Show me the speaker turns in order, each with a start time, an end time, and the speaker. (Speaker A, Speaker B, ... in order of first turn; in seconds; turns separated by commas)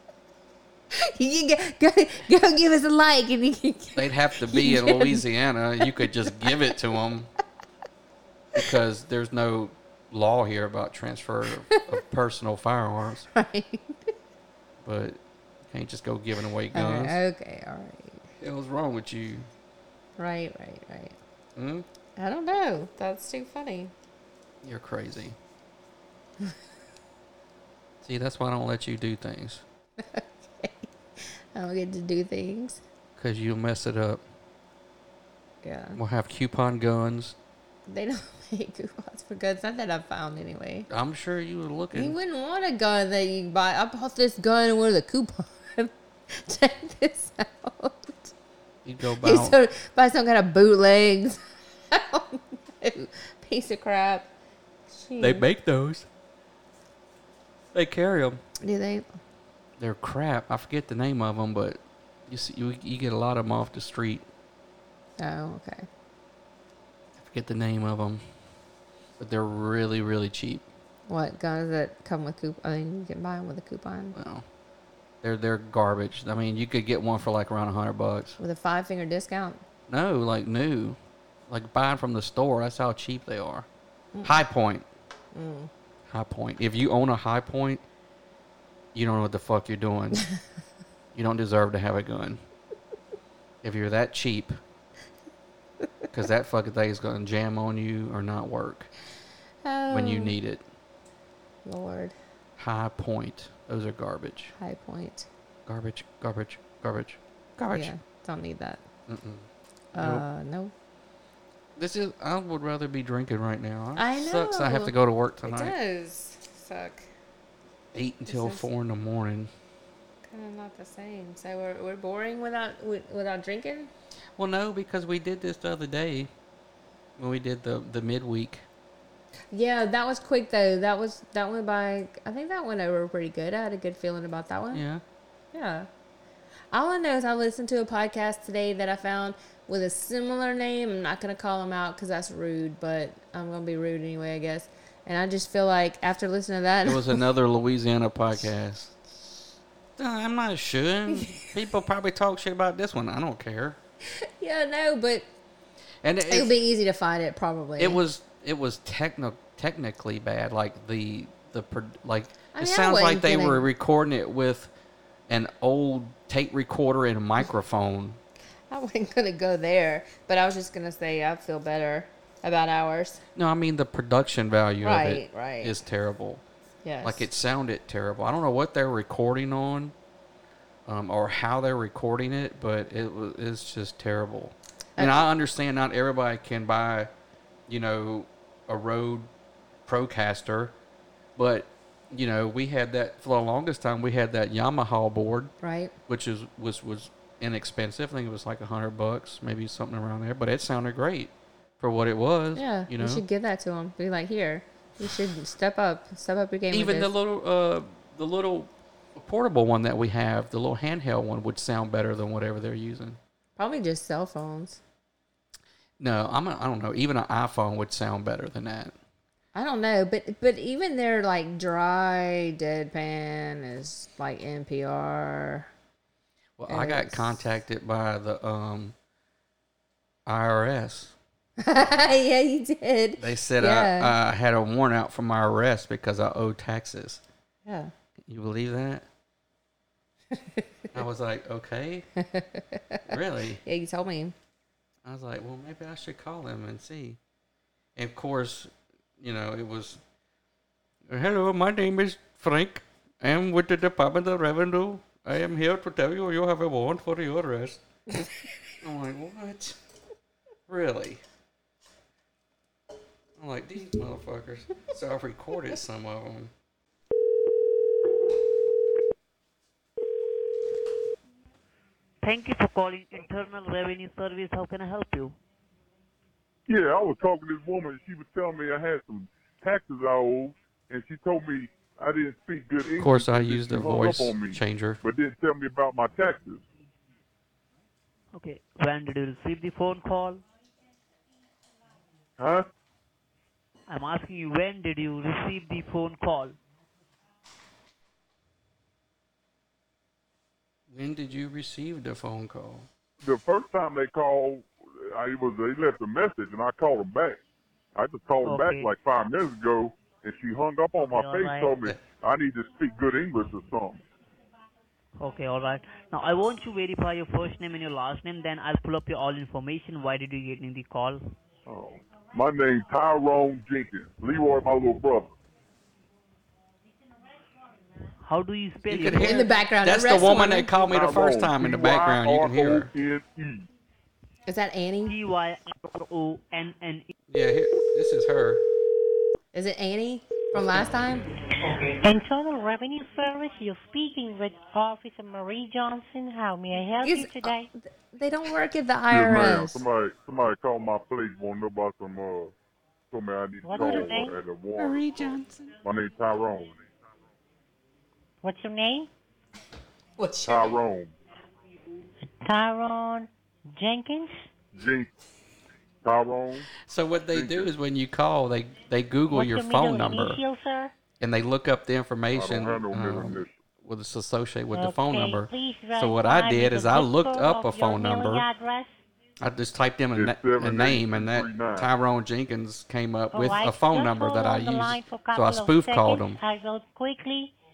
Speaker A: 0.9-5.2, Speaker B: 4.0-7.3, Speaker A: 5.8-6.5, Speaker B: 8.5-13.3, Speaker A: 13.3-14.1, Speaker B: 14.8-17.2, Speaker A: 16.7-18.2, Speaker B: 18.4-19.5, Speaker A: 20.2-21.2, Speaker B: 21.6-21.9, Speaker A: 22.2-23.9, Speaker B: 24.6-25.4, Speaker B: 28.0-29.6, Speaker A: 30.0-30.9, Speaker A: 31.5-32.8, Speaker B: 33.2-34.2, Speaker A: 35.6-36.0, Speaker B: 36.0-37.3, Speaker A: 37.9-40.9, Speaker B: 40.9-42.1, Speaker A: 41.9-48.3, Speaker B: 48.8-49.6, Speaker A: 49.2-51.4, Speaker A: 51.9-54.3, Speaker A: 54.9-55.5, Speaker B: 55.2-56.1, Speaker B: 57.7-58.4, Speaker A: 58.6-59.0, Speaker B: 59.8-64.2, Speaker A: 65.2-65.8, Speaker B: 67.2-68.2, Speaker B: 69.2-70.7, Speaker A: 71.1-74.2, Speaker B: 74.1-74.4, Speaker B: 75.2-78.4, Speaker A: 78.4-79.6, Speaker B: 79.9-81.0, Speaker B: 81.5-83.7, Speaker A: 84.1-84.4, Speaker B: 84.2-84.8, Speaker A: 85.3-85.7, Speaker B: 86.1-87.8, Speaker B: 88.9-90.2, Speaker B: 91.1-92.4, Speaker B: 93.6-94.6, Speaker B: 96.1-98.9, Speaker A: 99.6-100.3, Speaker B: 99.9-100.6, Speaker A: 101.6-102.1, Speaker B: 102.6-104.5, Speaker A: 104.6-105.3, Speaker B: 105.7-107.9, Speaker A: 107.7-108.8, Speaker B: 109.1-110.2, Speaker A: 109.9-110.7, Speaker B: 111.8-115.7, Speaker A: 114.0-117.0, Speaker B: 117.9-119.5, Speaker A: 118.2-118.7, Speaker A: 120.2-123.9, Speaker B: 124.4-126.3, Speaker B: 127.2-128.6, Speaker A: 129.5-134.8, Speaker B: 134.7-135.0, Speaker A: 135.5-135.9, Speaker A: 136.7-147.2, Speaker B: 146.8-149.0, Speaker B: 150.0-153.8, Speaker A: 154.2-155.2, Speaker B: 156.0-156.5, Speaker A: 156.3-158.0, Speaker B: 157.8-164.7, Speaker A: 162.5-163.7, Speaker B: 165.3-168.2, Speaker A: 168.7-173.2, Speaker B: 173.3-176.4, Speaker A: 174.8-175.8, Speaker A: 176.8-177.3, Speaker B: 177.0-179.9, Speaker B: 180.8-187.1, Speaker A: 185.0-185.3, Speaker B: 187.7-189.3, Speaker B: 189.8-190.7, Speaker B: 191.3-195.5, Speaker A: 195.6-195.9, Speaker B: 196.1-203.2, Speaker A: 202.5-207.1, Speaker B: 206.7-213.2, Speaker A: 213.6-214.8, Speaker B: 216.0-218.9, Speaker A: 219.5-225.7, Speaker B: 226.6-228.9, Speaker A: 226.7-227.4, Speaker B: 230.2-231.1, Speaker A: 231.6-234.1, Speaker B: 233.2-237.2, Speaker A: 237.7-237.9, Speaker B: 238.3-239.1, Speaker A: 240.3-240.6, Speaker B: 240.9-242.1, Speaker A: 242.2-244.3, Speaker B: 243.1-243.6, Speaker B: 245.0-247.2, Speaker B: 247.9-250.0, Speaker B: 251.1-258.2, Speaker B: 258.8-259.8, Speaker B: 260.7-261.2, Speaker B: 263.4-266.5, Speaker C: 272.2-275.4, Speaker D: 276.7-286.6, Speaker B: 283.0-285.0, Speaker C: 288.3-290.4, Speaker D: 292.4-292.6, Speaker C: 293.9-296.5, Speaker B: 300.9-302.9, Speaker D: 303.2-307.4, Speaker D: 307.9-314.0, Speaker C: 308.4-308.9, Speaker C: 311.1-311.7, Speaker C: 315.2-321.2, Speaker D: 321.6-325.3, Speaker C: 328.2-329.5, Speaker B: 328.9-332.9, Speaker A: 329.2-330.7, Speaker D: 330.7-333.7, Speaker A: 334.4-335.1, Speaker C: 335.1-337.1, Speaker B: 337.3-338.6, Speaker A: 339.5-341.3, Speaker C: 341.6-342.0, Speaker E: 342.0-347.7, Speaker A: 347.0-349.8, Speaker D: 349.1-352.5, Speaker D: 353.1-356.8, Speaker E: 353.6-354.4, Speaker B: 354.8-355.7, Speaker E: 358.4-359.1, Speaker A: 360.2-360.8, Speaker D: 360.4-361.1, Speaker E: 362.4-364.3, Speaker D: 364.7-365.1, Speaker D: 366.0-366.7, Speaker B: 366.8-370.4, Speaker D: 367.3-367.7, Speaker E: 369.3-370.9, Speaker B: 371.2-378.5, Speaker D: 372.3-373.6, Speaker E: 374.7-379.0, Speaker B: 379.4-386.4, Speaker D: 380.1-381.9, Speaker E: 383.3-387.5